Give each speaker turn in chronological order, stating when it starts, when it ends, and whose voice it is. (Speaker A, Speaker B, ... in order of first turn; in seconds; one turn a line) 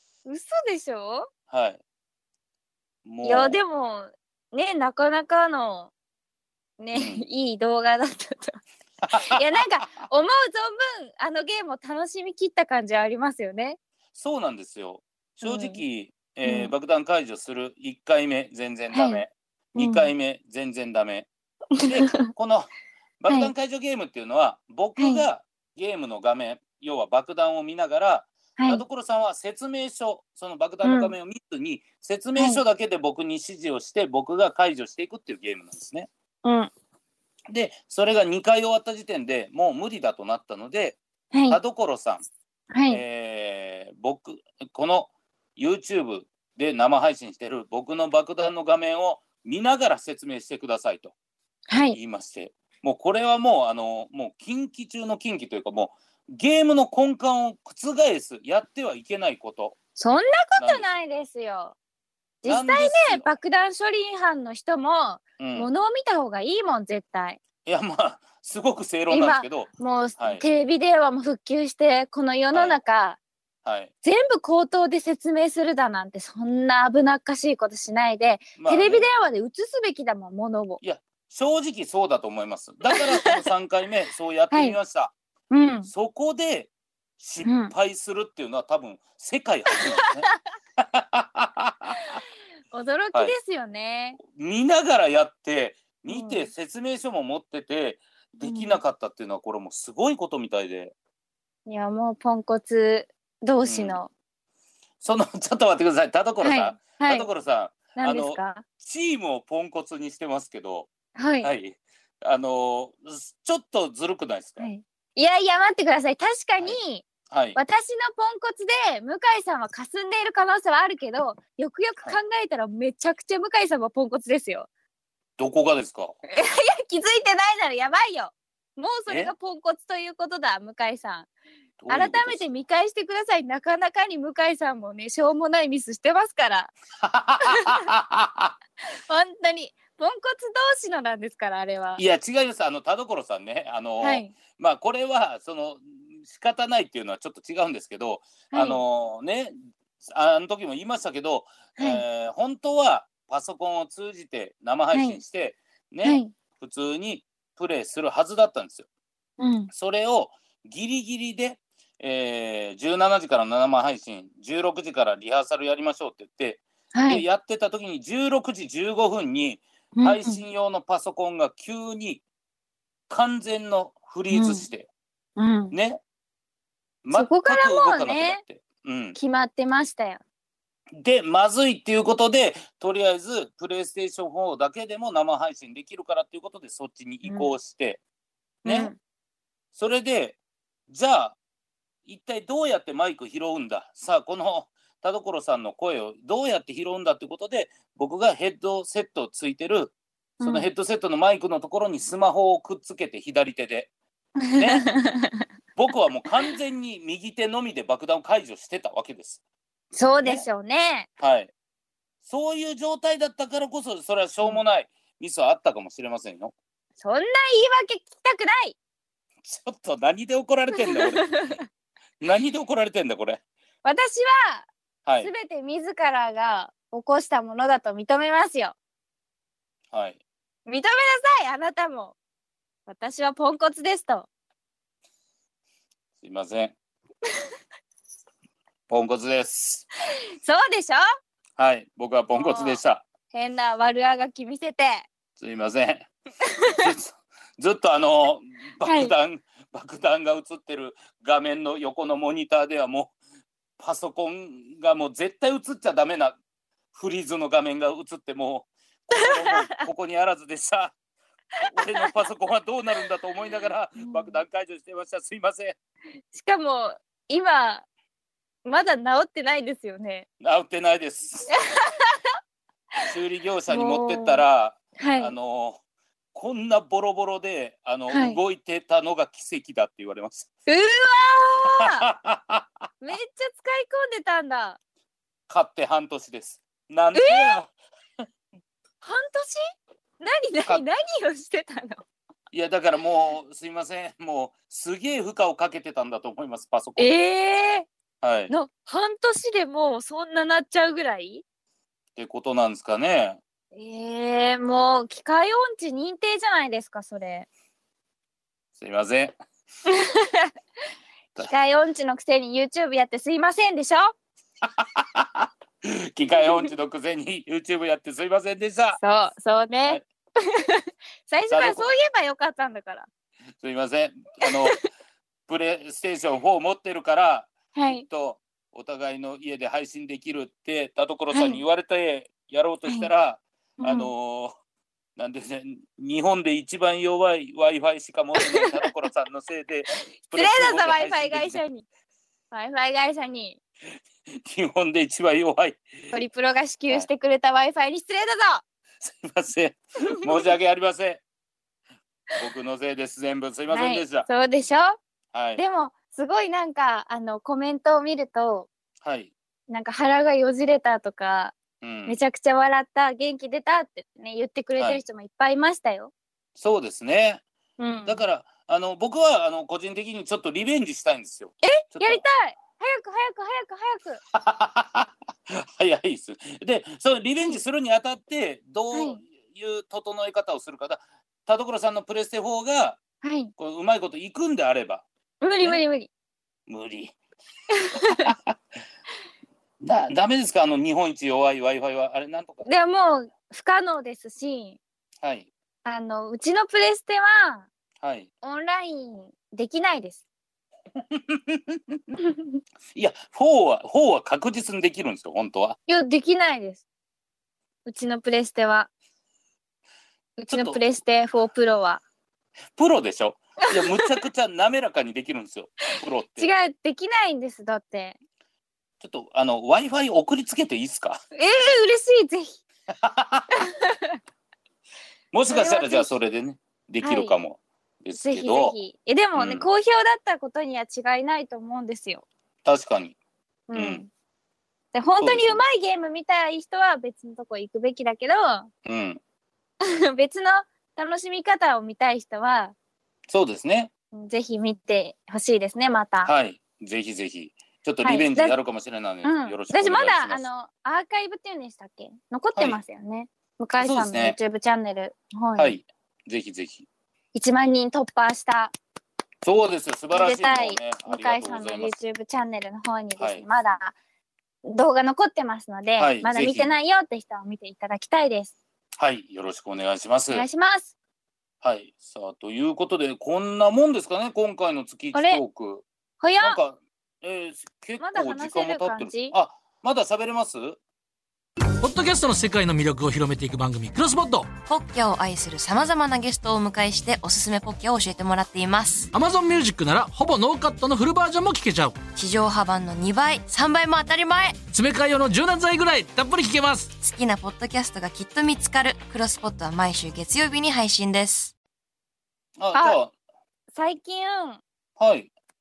Speaker A: 0.2-1.3
Speaker B: 1.5-1.8
Speaker B: 3.0-3.6
Speaker A: 3.2-5.9
Speaker A: 6.8-8.6
Speaker B: 7.0-7.2
Speaker B: 9.0-9.9
Speaker A: 9.1-13.8
Speaker B: 14.1-21.3
Speaker A: 15.4-15.8
Speaker A: 16.4-16.7
Speaker A: 18.9-19.2
Speaker A: 19.7-20.1
Speaker A: 21.8-22.3
Speaker B: 21.8-22.7
Speaker B: 23.2-36.1
Speaker A: 25.0-25.2
Speaker A: 28.6-28.8
Speaker A: 30.8-31.1
Speaker A: 32.4-32.6
Speaker A: 36.4-36.7
Speaker B: 37.5-42.2
Speaker A: 41.3-41.6
Speaker A: 42.7-43.0
Speaker B: 42.9-51.1
Speaker A: 51.7-52.0
Speaker B: 51.9-59.8
Speaker A: 60.0-61.7
Speaker B: 60.6-60.8
Speaker A: 62.4-67.4
Speaker B: 62.4-63.3
Speaker B: 65.4-65.7
Speaker B: 67.7-70.4
Speaker A: 69.1-73.2
Speaker B: 72.5-72.8
Speaker B: 73.6-73.9
Speaker A: 74.0-80.8
Speaker B: 78.6-79.1
Speaker B: 80.8-85.1
Speaker A: 82.8-83.4
Speaker A: 84.5-84.8
Speaker A: 85.5-85.9
Speaker B: 85.9-90.3
Speaker A: 87.4-87.7
Speaker A: 90.0-90.3
Speaker B: 90.8-92.0
Speaker A: 92.7-94.2
Speaker B: 94.2-100.9
Speaker A: 96.1-96.5
Speaker A: 98.4-98.8
Speaker A: 101.7-104.1
Speaker B: 103.6-104.0
Speaker B: 105.0-110.9
Speaker A: 106.4-107.3
Speaker A: 107.9-108.6
Speaker A: 111.2-111.5
Speaker B: 111.4-114.7
Speaker A: 114.6-124.7
Speaker B: 117.3-117.6
Speaker B: 125.4-126.1
Speaker A: 126.3-131.3
Speaker B: 129.1-129.3
Speaker B: 131.8-132.5
Speaker A: 131.9-136.7
Speaker B: 137.0-138.5
Speaker A: 137.4-137.8
Speaker A: 138.9-142.0
Speaker B: 142.0-158.8
Speaker A: 144.0-144.3
Speaker A: 148.5-148.8
Speaker A: 151.8-152.0
Speaker A: 154.9-155.2
Speaker A: 156.0-156.3
Speaker A: 159.4-159.7
Speaker B: 159.7-172.2
Speaker A: 166.9-167.2
Speaker A: 169.9-170.4
Speaker B: 173.1-174.9
Speaker A: 174.3-174.6
Speaker A: 175.4-175.7
Speaker B: 175.7-176.0
Speaker B: 177.0-179.2
Speaker A: 177.1-178.4
Speaker A: 179.1-180.2
Speaker B: 180.9-188.0
Speaker A: 187.2-187.5
Speaker B: 188.6-188.9
Speaker A: 188.6-188.9
Speaker B: 189.7-190.4
Speaker B: 190.9-191.3
Speaker B: 192.1-203.9
Speaker A: 200.4-200.7
Speaker A: 204.4-205.4
Speaker B: 204.6-204.9
Speaker B: 205.8-209.4
Speaker A: 209.9-211.1
Speaker B: 211.2-211.5
Speaker B: 212.2-216.5
Speaker A: 217.0-218.8
Speaker B: 219.4-221.6
Speaker A: 220.9-221.6
Speaker B: 222.2-223.4
Speaker A: 223.8-224.7
Speaker B: 225.0-225.3
Speaker A: 225.2-228.7
Speaker B: 229.9-230.2
Speaker A: 230.7-232.2
Speaker A: 232.9-234.3
Speaker B: 236.2-236.7
Speaker B: 238.9-239.8
Speaker A: 240.4-241.0
Speaker B: 241.6-243.0
Speaker A: 242.3-242.8
Speaker A: 243.3-245.1
Speaker B: 245.4-246.1
Speaker A: 246.4-246.9
Speaker B: 246.7-253.1
Speaker A: 248.8-249.1
Speaker B: 253.8-256.4
Speaker B: 256.9-260.9
Speaker A: 259.2-259.8
Speaker A: 261.6-262.1
Speaker B: 261.6-265.8
Speaker A: 264.0-264.4
Speaker A: 266.3-267.8
Speaker A: 268.6-270.2
Speaker B: 270.4-271.5
Speaker A: 271.5-272.3
Speaker B: 273.0-275.8
Speaker A: 273.7-274.4
Speaker A: 275.0-275.3
Speaker B: 276.3-280.5
Speaker A: 278.1-278.4
Speaker A: 280.7-282.0
Speaker B: 281.7-282.6
Speaker A: 283.0-284.8
Speaker B: 285.5-287.7
Speaker A: 287.1-287.6
Speaker A: 289.0-289.6
Speaker A: 290.2-292.0
Speaker B: 292.5-297.1
Speaker A: 297.0-297.9
Speaker B: 298.2-298.5
Speaker A: 298.5-301.4
Speaker B: 302.1-303.4
Speaker A: 303.7-307.5
Speaker B: 308.7-309.4
Speaker A: 309.9-310.5
Speaker A: 311.4-314.1
Speaker B: 314.6-319.0
Speaker A: 319.0-323.1
Speaker B: 321.5-321.9
Speaker B: 323.6-324.8
Speaker A: 324.4-324.7
Speaker B: 325.5-334.6
Speaker A: 327.7-328.1
Speaker A: 331.3-331.6
Speaker A: 333.8-334.1
Speaker B: 335.1-341.6
Speaker A: 338.4-338.9
Speaker A: 340.2-341.8
Speaker A: 342.5-343.6
Speaker B: 344.3-345.8
Speaker A: 346.1-348.6
Speaker B: 349.0-351.2
Speaker B: 352.4-354.3
Speaker A: 353.7-355.0
Speaker B: 355.3-355.6
Speaker A: 355.6-358.7
Speaker B: 359.0-359.3
Speaker A: 359.7-366.1
Speaker B: 361.8-362.2
Speaker B: 366.6-367.4
Speaker A: 367.8-368.2
Speaker B: 368.1-372.2
Speaker A: 371.6-374.2
Speaker B: 374.3-383.0
Speaker A: 378.9-379.2
Speaker A: 383.2-383.5
Speaker B: 383.6-385.0
Speaker A: 385.4-386.1
Speaker B: 386.7-387.2
Speaker A: 387.7-388.3
Speaker B: 388.1-388.6
Speaker B: 389.8-392.6
Speaker A: 392.6-394.8
Speaker B: 395.2-395.5
Speaker A: 395.8-397.7
Speaker B: 398.0-398.3
Speaker A: 398.4-400.2
Speaker B: 400.9-402.0
Speaker B: 402.9-405.8
Speaker A: 405.9-406.8
Speaker A: 407.9-408.9
Speaker A: 410.4-412.0
Speaker B: 410.5-410.8
Speaker B: 412.8-416.5
Speaker A: 413.6-414.1
Speaker A: 416.4-418.2
Speaker B: 419.0-421.2
Speaker A: 421.3-422.6
Speaker B: 422.9-423.6
Speaker A: 423.6-424.2
Speaker B: 425.3-428.7
Speaker A: 425.5-426.1
Speaker A: 427.0-427.4
Speaker A: 428.1-432.2
Speaker B: 429.4-429.6
Speaker B: 432.6-433.1
Speaker A: 433.7-434.1
Speaker B: 433.7-434.0
Speaker A: 434.9-438.7
Speaker B: 435.2-435.6
Speaker B: 438.8-439.2
Speaker A: 439.8-442.7
Speaker B: 443.3-443.9
Speaker A: 444.1-446.3
Speaker B: 446.2-450.4
Speaker A: 448.0-448.6
Speaker A: 449.2-455.8
Speaker B: 453.8-454.4
Speaker B: 455.6-456.9
Speaker A: 457.3-458.7
Speaker B: 459.4-462.0
Speaker A: 460.1-463.9
Speaker B: 463.2-463.4
Speaker A: 464.6-468.5
Speaker B: 466.0-466.7
Speaker B: 469.0-470.4
Speaker A: 470.3-470.9
Speaker B: 471.6-475.8
Speaker A: 475.1-475.4
Speaker A: 476.2-476.6
Speaker B: 476.4-480.8
Speaker A: 478.0-479.3
Speaker C: 481.8-484.5
Speaker D: 484.6-489.1
Speaker C: 489.1-492.0
Speaker D: 492.1-494.6
Speaker C: 494.7-496.9
Speaker D: 497.0-501.5
Speaker B: 502.6-503.1
Speaker A: 502.7-503.0
Speaker A: 503.7-504.6
Speaker B: 505.0-505.3